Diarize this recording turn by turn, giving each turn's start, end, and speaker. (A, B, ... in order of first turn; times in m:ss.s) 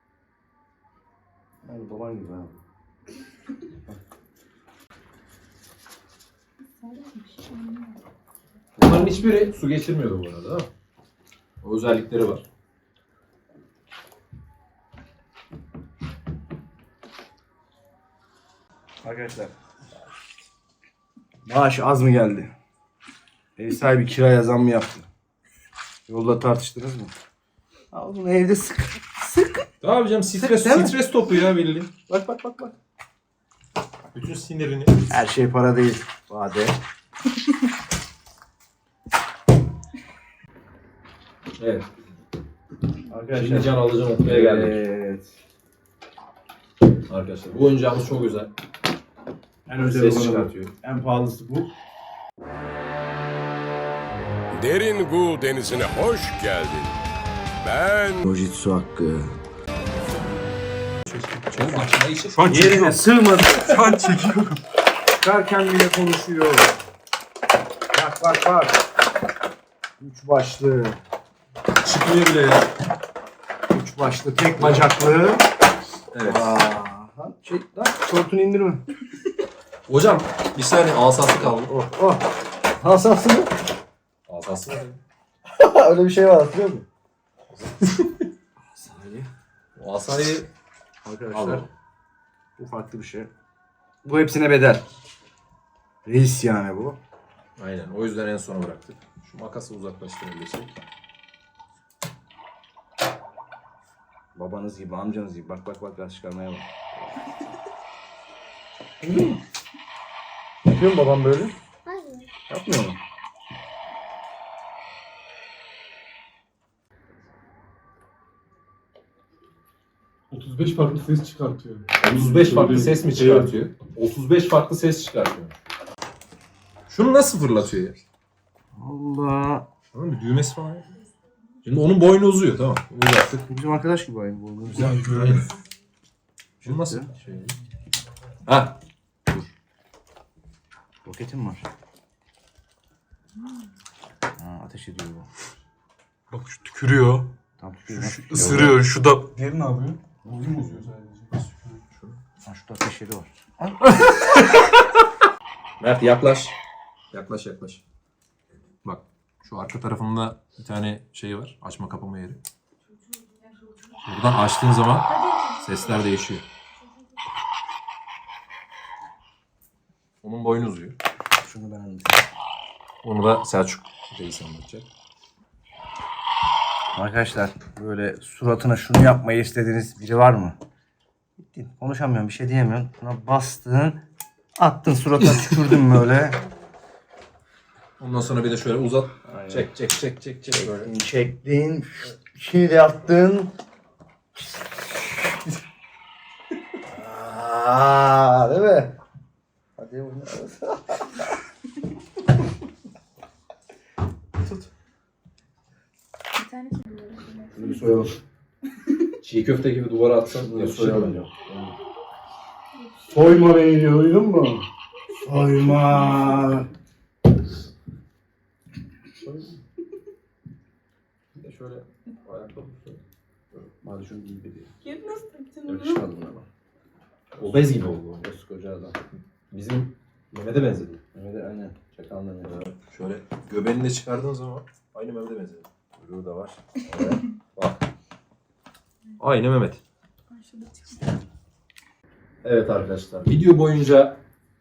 0:01.6-0:02.6 A
0:06.8-0:08.0 B
0:08.8-0:10.7 C
0:11.6-0:12.4 C
0:19.0-0:19.5 A
0:21.4-0:22.5 A
0:23.6-0:25.1 A
0:26.1-0:27.1 A
0:27.9-0:29.6 A
0:29.8-0:31.9 C
0:30.3-0:31.0 A
0:32.1-0:32.7 A
0:34.1-0:35.0 C
0:35.1-0:36.8 A
0:41.6-0:41.9 C
0:43.1-0:45.3 A
0:43.3-0:44.8 C
0:47.1-0:48.5 C
0:49.6-0:51.7 A
0:49.8-0:50.7 C
0:54.5-0:56.9 D
0:57.6-0:58.2 D
0:58.2-0:59.4 A
1:01.1-1:03.0 C
1:02.3-1:04.2 A
1:03.6-1:03.9 C
1:05.2-1:06.8 A
1:07.9-1:08.8 A
1:10.0-1:11.0 A
1:11.8-1:12.7 C
1:13.7-1:15.5 A
1:14.6-1:15.0 C
1:16.1-1:16.6 C
1:16.2-1:18.8 A
1:19.9-1:21.7 C
1:21.6-1:23.5 A
1:24.3-1:25.0 C
1:25.5-1:26.8 A
1:27.5-1:28.3 C
1:28.7-1:29.3 A
1:29.8-1:30.5 C
1:31.0-1:31.7 A
1:31.3-1:31.7 C
1:32.6-1:33.3 A
1:34.0-1:34.8 A
1:36.0-1:37.0 A
1:37.6-1:40.7 C
1:44.3-1:47.3 A
1:49.0-1:49.4 A
1:50.6-1:51.5 A
1:51.9-1:52.2 B
1:52.5-1:53.0 A
2:00.3-2:01.9 E
2:02.0-2:05.6 C
2:02.4-2:03.0 A
2:06.9-2:08.0 C
2:08.8-2:09.7 A
2:09.9-2:10.9 C
2:11.6-2:13.4 C
2:13.4-2:15.4 A
2:14.7-2:15.6 C
2:16.6-2:17.6 C
2:16.6-2:17.1 A
2:18.4-2:18.8 C
2:21.0-2:21.6 A
2:24.4-2:25.2 A
2:26.3-2:27.3 E
2:27.6-2:30.7 A
2:28.4-2:29.9 E
2:30.3-2:32.2 C
2:30.9-2:31.2 E
2:32.4-2:34.0 A
2:34.0-2:34.8 C
2:35.8-2:36.5 C
2:37.1-2:37.8 C
2:38.8-2:42.4 C
2:44.0-2:46.4 C
2:45.1-2:46.1 B
2:50.2-2:51.0 C
2:51.4-2:52.2 A
2:53.0-2:54.8 C
2:56.9-3:00.6 A
3:01.4-3:04.0 A
3:04.6-3:06.4 A
3:08.0-3:10.9 C
3:09.2-3:09.7 A
3:10.5-3:13.5 A
3:16.8-3:18.9 A
3:19.8-3:21.2 A
3:26.3-3:28.1 B
3:27.5-3:28.2 A
3:29.2-3:31.7 C
3:30.4-3:31.5 A
3:32.8-3:33.3 B
3:33.0-3:34.6 A
3:35.2-3:36.7 A
3:41.4-3:43.0 C
3:43.8-3:44.7 A
3:44.8-3:46.0 B
3:45.6-3:46.4 A
3:47.4-3:48.2 C
3:47.4-3:49.0 A
3:49.5-3:51.0 C
3:51.1-3:52.7 A
3:52.4-3:55.7 C
3:56.0-3:57.2 A
3:56.9-3:57.8 C
3:59.2-3:59.8 C
4:00.3-4:01.2 B
4:02.4-4:04.2 C